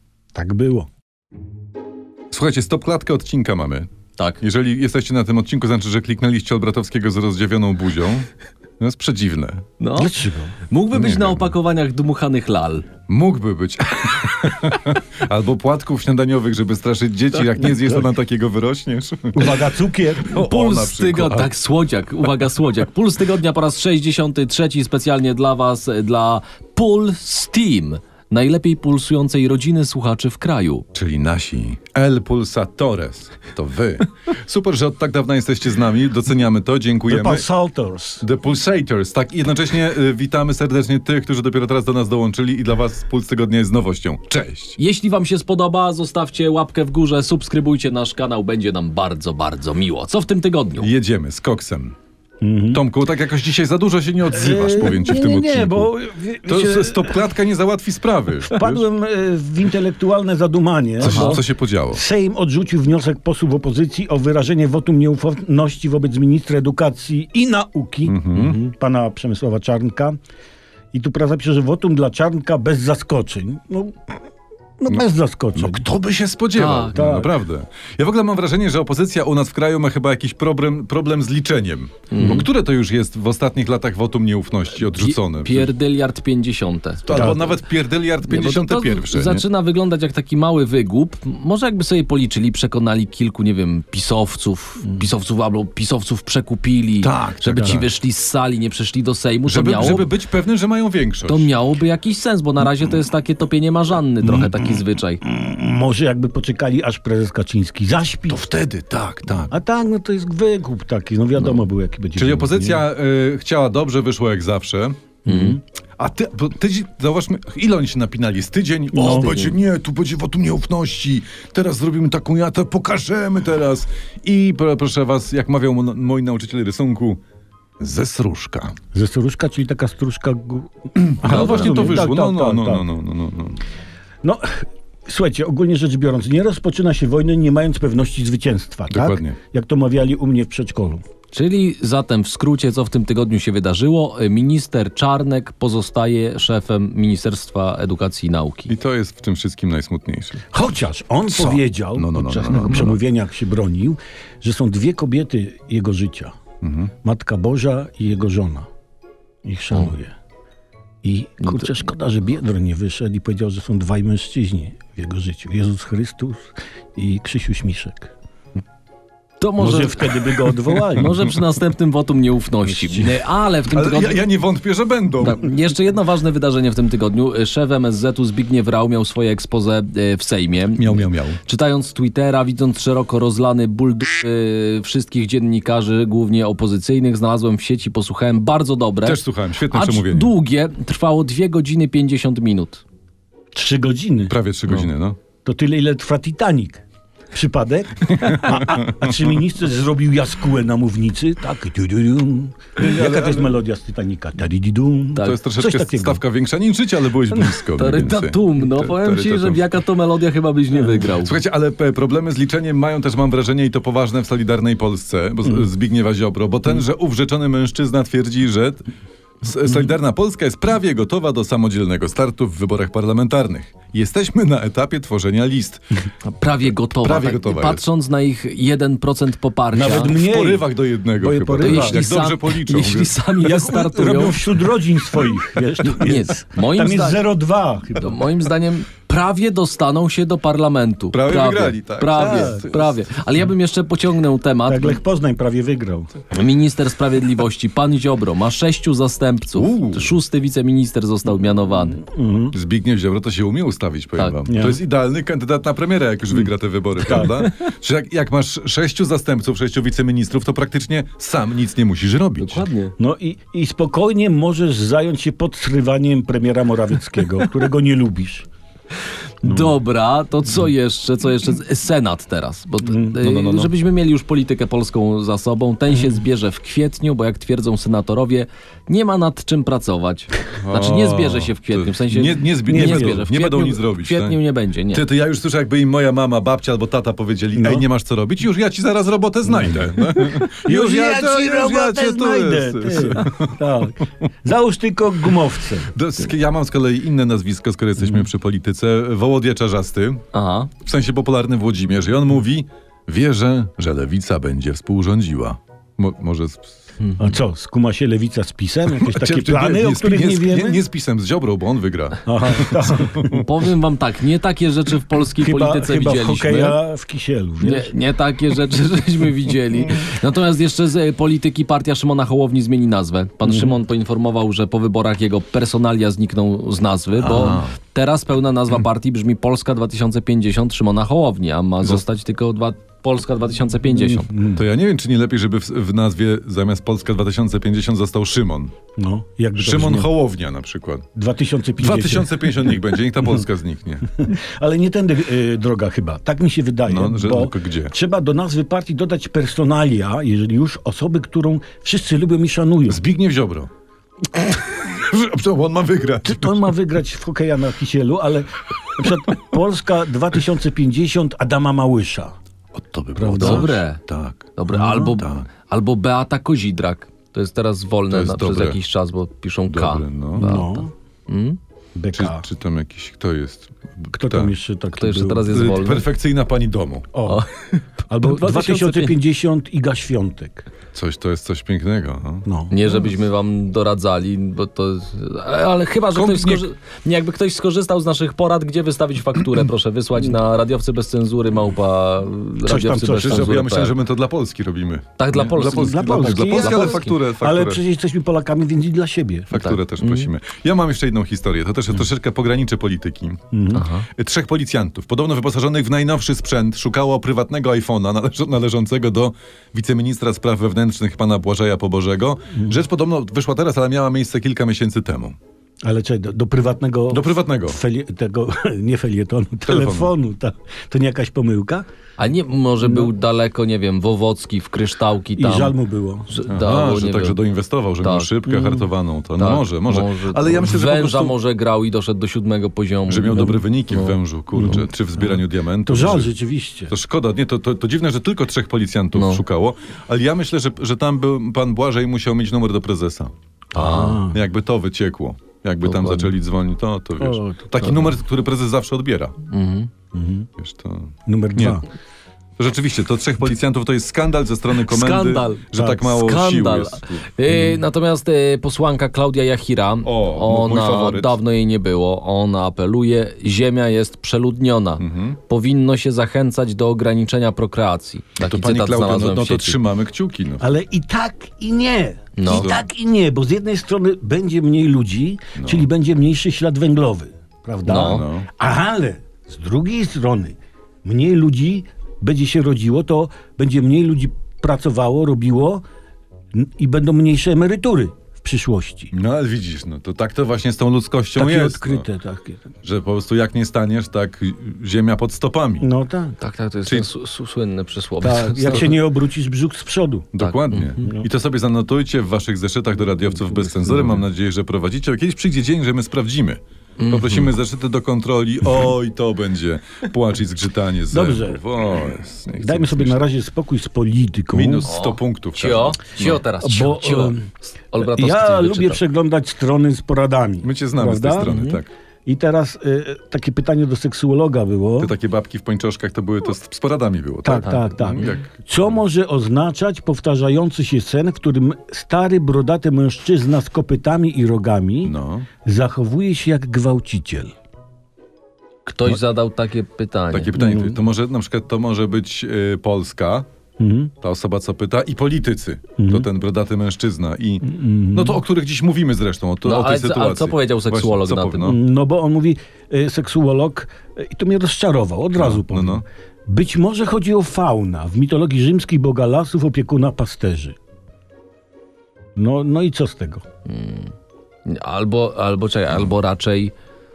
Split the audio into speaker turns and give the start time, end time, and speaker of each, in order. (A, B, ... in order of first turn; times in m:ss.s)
0:00.3-0:00.9 A
0:02.3-0:03.9 B
0:04.4-0:08.3 B
0:08.8-0:09.6 B
0:09.8-0:10.1 C
0:09.9-0:10.5 A
0:10.7-0:12.8 C
0:10.9-0:11.5 B
0:13.1-0:19.6 B
0:19.3-0:20.4 A
0:20.2-0:21.5 B
0:20.3-0:30.8 C
0:30.9-0:37.4 B
0:37.1-0:38.2 A
0:38.2-0:44.8 B
0:44.8-0:50.9 C
0:50.8-0:52.0 B
0:52.4-0:52.8 A
0:52.7-0:58.8 B
0:54.3-0:57.2 A
0:58.4-1:10.2 A
1:01.0-1:02.0 B
1:01.0-1:01.4 C
1:08.0-1:08.6 B
1:10.9-1:14.0 A
1:14.8-1:15.9 A
1:15.6-1:25.7 B
1:16.6-1:17.0 C
1:16.9-1:17.3 A
1:22.1-1:22.5 C
1:24.9-1:27.4 C
1:27.0-1:29.4 B
1:27.1-1:27.4 A
1:28.2-1:40.1 C
1:37.0-1:37.9 B
1:39.4-1:41.5 B
1:41.3-1:45.2 C
1:44.2-1:48.4 A
1:48.3-1:49.5 B
1:49.5-1:52.8 A
1:52.2-1:55.0 B
1:55.2-1:55.6 A
1:55.3-1:55.6 C
1:56.0-2:07.2 B
1:58.9-1:59.5 A
1:59.0-1:59.5 C
2:07.8-2:08.8 B
2:08.9-2:12.8 A
2:11.0-2:13.6 B
2:11.3-2:11.9 C
2:14.2-2:21.0 A
2:18.9-2:19.4 B
2:21.3-2:28.7 C
2:28.7-2:30.4 B
2:30.5-2:36.3 A
2:31.3-2:33.0 B
2:36.6-2:36.9 B
2:37.0-2:38.7 A
2:39.4-2:40.2 A
2:41.0-2:48.1 A
2:41.4-2:41.7 C
2:49.4-2:54.2 C
2:49.6-2:51.3 A
2:52.6-2:53.2 A
2:53.7-2:55.5 B
2:55.2-3:12.8 C
3:00.8-3:01.4 B
3:09.0-3:10.3 B
3:13.5-3:14.3 A
3:14.3-3:15.2 B
3:15.4-3:26.2 A
3:18.1-3:19.0 B
3:22.8-3:23.6 B
3:25.1-3:25.4 C
3:25.2-3:29.6 B
3:27.7-3:31.4 C
3:31.1-3:38.8 B
3:39.4-3:45.8 B
3:46.3-3:50.2 C
3:47.0-3:47.8 B
3:49.7-3:52.0 A
3:50.1-3:53.1 B
3:51.6-3:54.6 C
3:53.4-3:58.2 A
3:55.8-3:57.2 C
3:57.9-4:05.0 C
4:01.1-4:02.8 B
4:02.1-4:02.7 A
4:04.7-4:06.1 A
4:06.3-4:12.0 C
4:09.5-4:10.2 B
4:11.9-4:12.5 A
4:12.5-4:22.6 B
4:14.5-4:14.8 A
4:17.0-4:17.5 A
4:22.4-4:22.9 C
4:23.0-4:28.5 A
4:29.4-4:45.0 C
4:29.4-4:29.7 A
4:32.8-4:33.2 A
4:33.2-4:33.7 B
4:40.6-4:44.4 B
4:42.6-4:43.2 A
4:44.9-4:53.8 B
4:47.5-4:47.8 A
4:49.5-4:55.9 A
4:55.9-5:00.2 B
4:58.0-4:58.3 A
5:00.3-5:00.7 C
5:00.8-5:06.8 B
5:07.0-5:07.3 C
5:07.2-5:10.8 A
5:09.0-5:13.4 B
5:12.2-5:13.4 A
5:13.3-5:16.8 C
5:15.4-5:17.9 A
5:17.6-5:34.3 C
5:23.4-5:23.8 A
5:27.2-5:27.7 B
5:33.9-5:34.6 A
5:34.5-5:38.7 B
5:39.0-5:40.1 A
5:39.6-5:41.1 B
5:41.1-5:43.3 A
5:41.8-5:44.2 B
5:44.2-5:53.0 A
5:46.9-5:47.9 B
5:52.9-5:53.7 B
5:54.3-5:56.7 B
5:56.2-6:02.3 A
6:02.7-6:05.5 B
6:03.2-6:03.8 A
6:03.4-6:04.0 C
6:04.6-6:11.6 C
6:04.7-6:05.2 A
6:08.1-6:08.8 B
6:09.7-6:10.5 B
6:10.4-6:10.9 A
6:12.0-6:12.4 A
6:12.1-6:14.5 B
6:14.1-6:15.6 A
6:15.0-6:16.1 C
6:15.5-6:17.1 B
6:17.1-6:17.4 A
6:17.2-6:19.2 C
6:18.1-6:20.7 A
6:20.9-6:22.4 B
6:22.4-6:23.0 A
6:22.7-6:34.0 C
6:26.1-6:26.6 B
6:32.6-6:33.6 A
6:33.2-6:37.8 B
6:35.2-6:37.1 C
6:35.6-6:39.5 A
6:39.5-6:43.4 B
6:39.5-6:40.3 C
6:43.5-6:43.9 A
6:43.7-6:44.1 C
6:44.1-6:55.4 B
6:55.8-7:01.9 A
6:57.1-6:57.8 B
6:59.6-7:00.1 B
7:02.2-7:05.7 C
7:02.8-7:03.1 A
7:05.4-7:06.3 A
7:06.3-7:07.4 C
7:06.5-7:11.3 B
7:08.0-7:08.7 C
7:09.4-7:14.8 C
7:13.1-7:16.3 B
7:14.5-7:16.9 A
7:16.9-7:29.4 B
7:19.1-7:19.4 C
7:23.7-7:24.2 C
7:23.7-7:24.4 A
7:25.8-7:26.3 C
7:27.2-7:28.1 A
7:29.5-7:29.9 C
7:30.1-7:30.5 A
7:30.6-7:31.8 B
7:31.2-7:31.8 A
7:32.6-7:37.3 B
7:34.8-7:49.8 C
7:37.5-7:37.8 A
7:40.0-7:41.4 B
7:45.0-7:45.4 B
7:48.4-7:50.7 B
7:50.6-8:05.8 A
7:52.4-7:52.7 C
7:52.4-7:52.8 B
7:55.6-7:55.9 B
7:57.8-7:58.2 C
7:57.9-7:58.5 B
8:06.5-8:09.1 A
8:09.1-8:12.0 B
8:11.3-8:12.6 A
8:12.8-8:15.9 B
8:15.8-8:16.4 A
8:16.4-8:19.0 C
8:18.2-8:20.3 A
8:20.3-8:33.2 B
8:20.4-8:21.0 C
8:21.0-8:21.2 A
8:23.5-8:24.2 A
8:27.0-8:27.5 C
8:31.1-8:31.6 A
8:32.6-8:34.9 A
8:34.5-8:36.4 B
8:34.8-8:37.4 C
8:36.6-8:41.6 A
8:37.9-8:39.0 C
8:40.6-8:41.9 B
8:41.4-8:41.8 C
8:42.2-8:45.1 A
8:45.0-8:48.9 B
8:47.4-8:57.5 A
8:47.6-8:48.2 C
8:55.0-8:55.5 B
8:58.8-9:00.5 C
9:00.3-9:03.5 B
9:00.6-9:01.0 A
9:03.8-9:04.1 A
9:04.2-9:11.8 B
9:06.0-9:06.3 A
9:07.6-9:08.4 A
9:09.6-9:11.7 C
9:11.6-9:20.8 A
9:15.4-9:16.0 B
9:22.4-9:23.4 A
9:23.7-9:24.1 C
9:24.6-9:26.7 C